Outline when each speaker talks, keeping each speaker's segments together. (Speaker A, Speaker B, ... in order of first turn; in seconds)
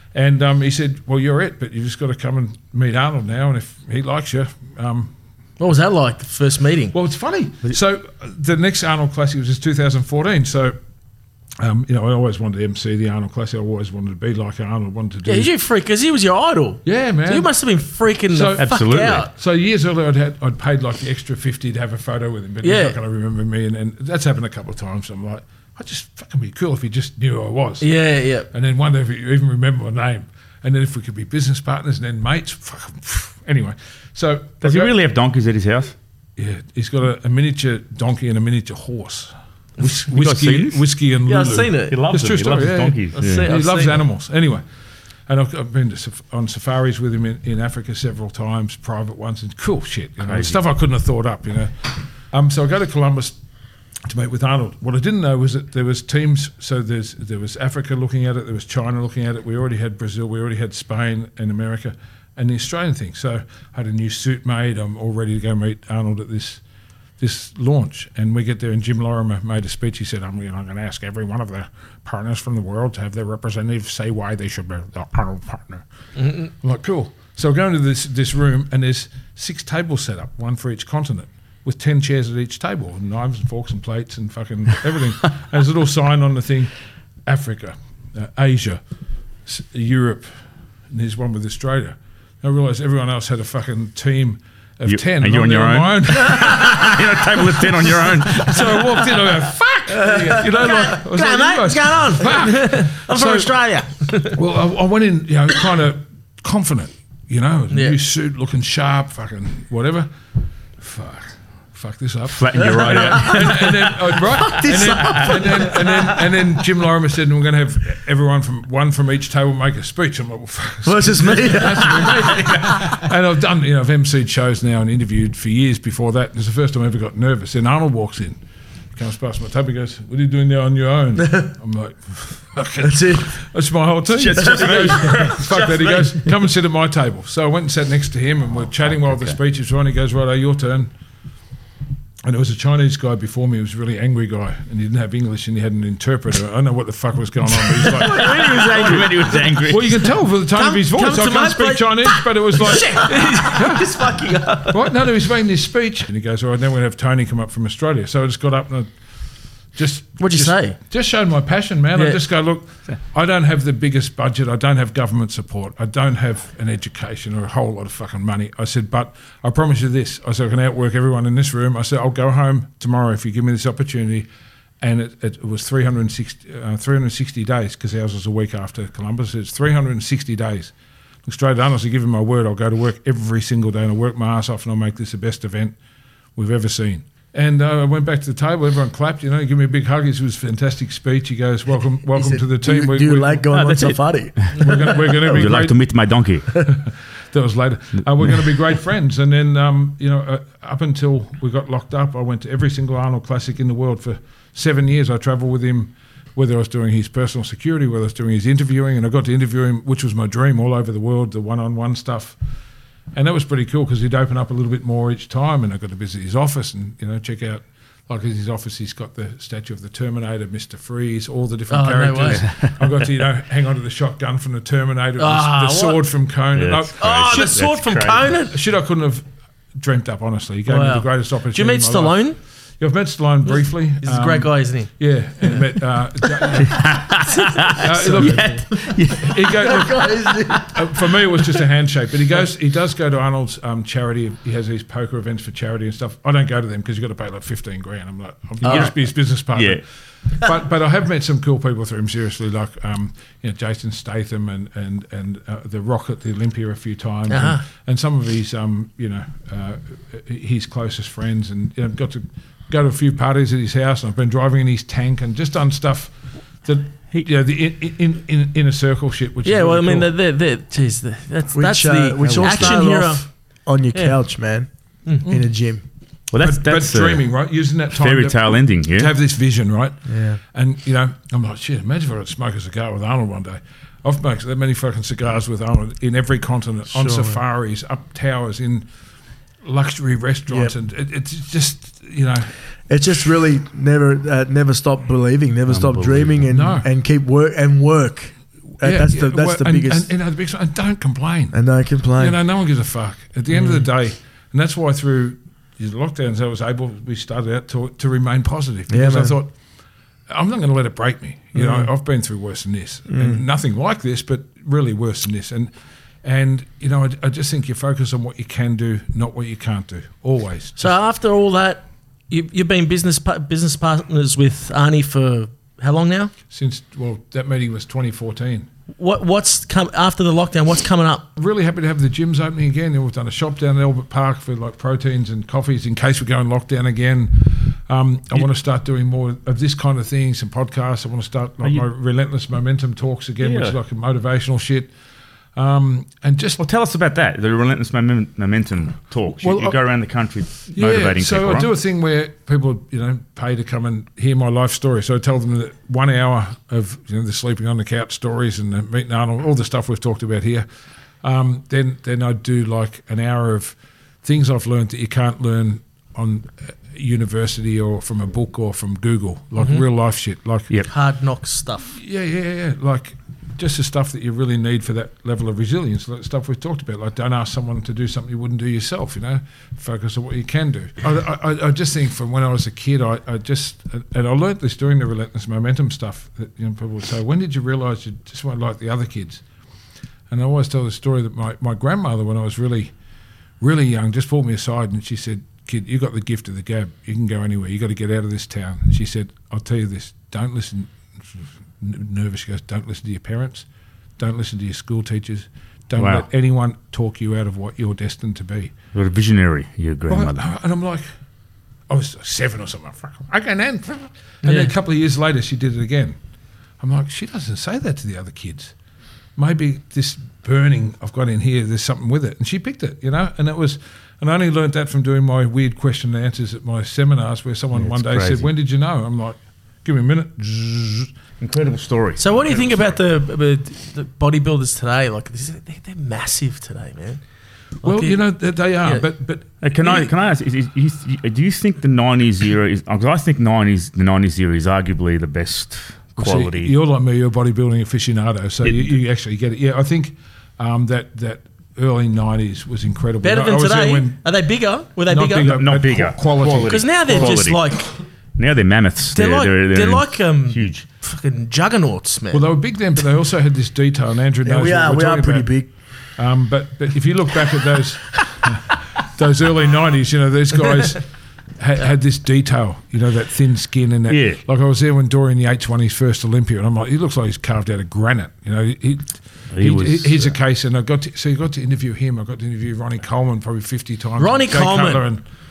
Speaker A: 0.1-5.1, 6.9-10.8, 11.6-15.5, 16.9-17.5, 18.3-27.9, 28.5-34.9, 36.4-44.6, 45.3-53.4, 54.1-66.6, 67.2-86.7, 87.3-88.8, 89.5-90.3, 90.9-103.5, 104.2-110.1, 110.8-128.4, 128.9-140.9, 142.2-153.9, 154.7-158.9, 159.7-174.3, 174.8-180.7, 181.2-185.8, 186.4-193.5, 194.6-195.8, 196.5-212.4, 213.1-227.7, 228.4-229.2, 229.8-237.2, 237.7-270.1, 276.4-288.9, 289.6-292.6, 296.5-296.9, 298.8-301.6, 302.2-309.5, 310.3-315.7, 316.2-321.0, 326.5-328.7, 331.4-344.9, 345.6-346.6, 349.4-349.8, 350.7-360.7, 361.2-370.7, 372.0-389.4, 390.3-392.9, 393.6-400.9, 401.8-403.7, 404.2-408.7, 410.1-411.0, 411.9-416.2, 416.8-418.7, 419.4-431.1, 437.8-439.6, 446.2-454.2, 455.1-457.4, 462.3-465.5, 466.2-471.1, 471.6-485.2
Speaker B: 5.6-6.9, 15.3-19.3, 22.6-23.0, 27.8-28.5, 41.2-42.0, 43.1-44.0, 100.0-104.4, 107.7-108.0, 147.7-149.5, 150.5-154.9, 160.2-160.8, 161.9-162.2, 221.7-222.5, 225.2-226.1, 227.0-228.6, 230.7-232.4, 233.5-235.6, 237.3-238.7, 248.6-248.9, 257.3-257.6, 269.4-273.3, 273.9-274.2, 320.8-326.3, 329.0-331.3, 369.6-369.8, 370.9-372.0, 414.4-414.7, 432.2-437.2, 437.8-438.2, 439.8-440.1, 453.2-455.6, 456.6-457.9, 459.1-462.5, 484.2-485.1
Speaker C: 18.6-19.3, 34.6-35.9, 39.8-40.9, 41.9-43.5, 50.2-50.6, 94.9-99.0, 112.3-114.0, 114.9-115.4, 134.1-136.2, 138.9-139.4, 148.0-150.1, 193.5-196.7, 222.3-222.7, 226.5-228.3, 236.7-239.7, 248.6-249.8, 272.2-272.8, 276.3-277.3, 278.0-279.1, 295.7-296.4, 343.4-343.8, 346.6-351.7, 406.0-406.3, 408.9-410.4, 427.7-428.5, 431.4-432.9, 439.6-446.7, 448.6-448.9, 455.4-457.7, 458.4-460.9, 474.1-474.4, 479.5-480.4
Speaker D: 100.0-100.6, 112.8-116.5, 120.8-122.6, 131.2-131.5, 132.8-133.3, 134.4-135.3, 192.1-195.2, 239.5-241.1, 271.5-275.8, 280.1-280.4, 286.9-287.4, 290.5-290.8, 292.9-300.1, 301.5-302.4, 308.9-309.4, 311.6-311.9, 313.1-313.4, 464.4-465.7